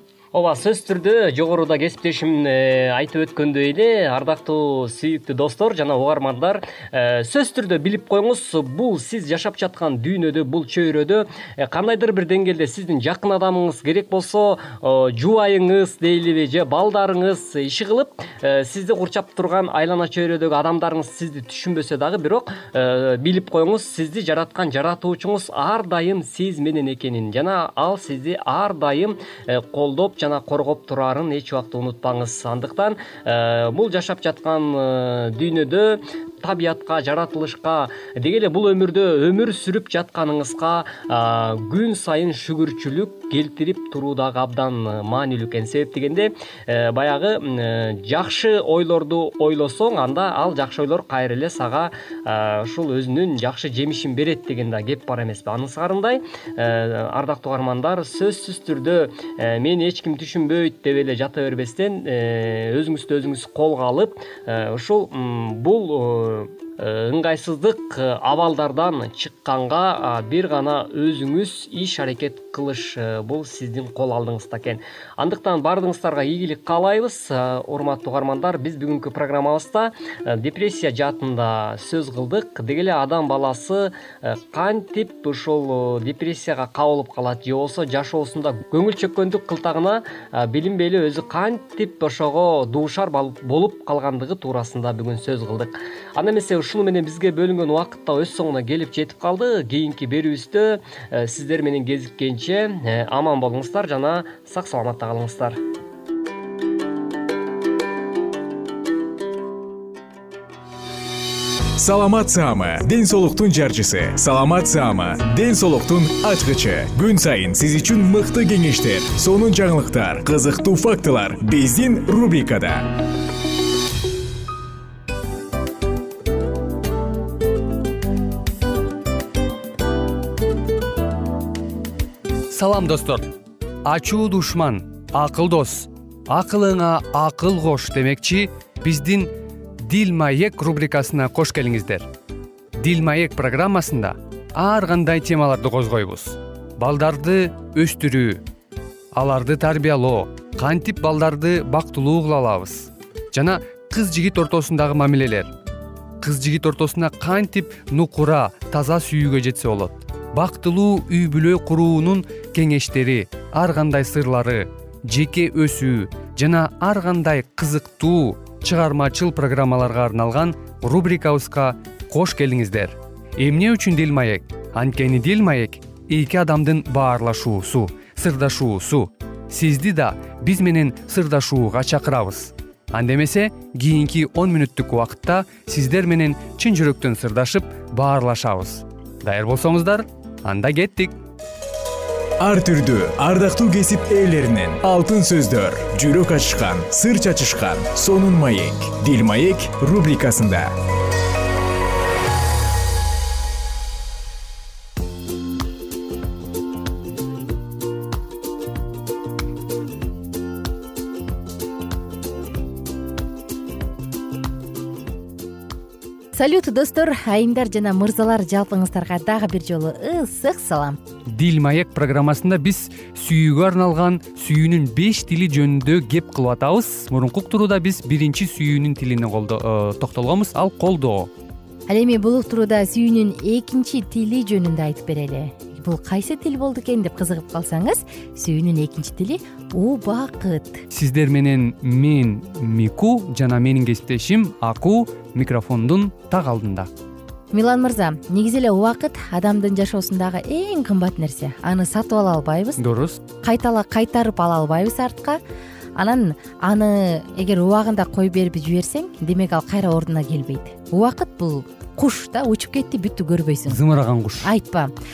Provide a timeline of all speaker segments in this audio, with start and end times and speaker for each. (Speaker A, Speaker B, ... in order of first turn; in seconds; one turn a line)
Speaker A: 0.3-105.6
Speaker B: 111.8-122.9
Speaker C: 132.5-133.3
Speaker C: 133.8-139.3
Speaker C: 139.8-142.1
Speaker C: 142.8-148.4
Speaker C: 149.1-155.5
Speaker C: 156.2-191.1
Speaker B: 192.4-200.7
Speaker D: 216.3-221.0
Speaker C: 221.3-231.3
Speaker D: 231.9-240.8
Speaker C: 240.9-246.9
Speaker D: 247.5-252.8
Speaker C: 252.8-253.2
Speaker D: 253.4-255.4
Speaker D: 255.9-263.8
Speaker C: 263.7-264.5
Speaker D: 264.4-264.9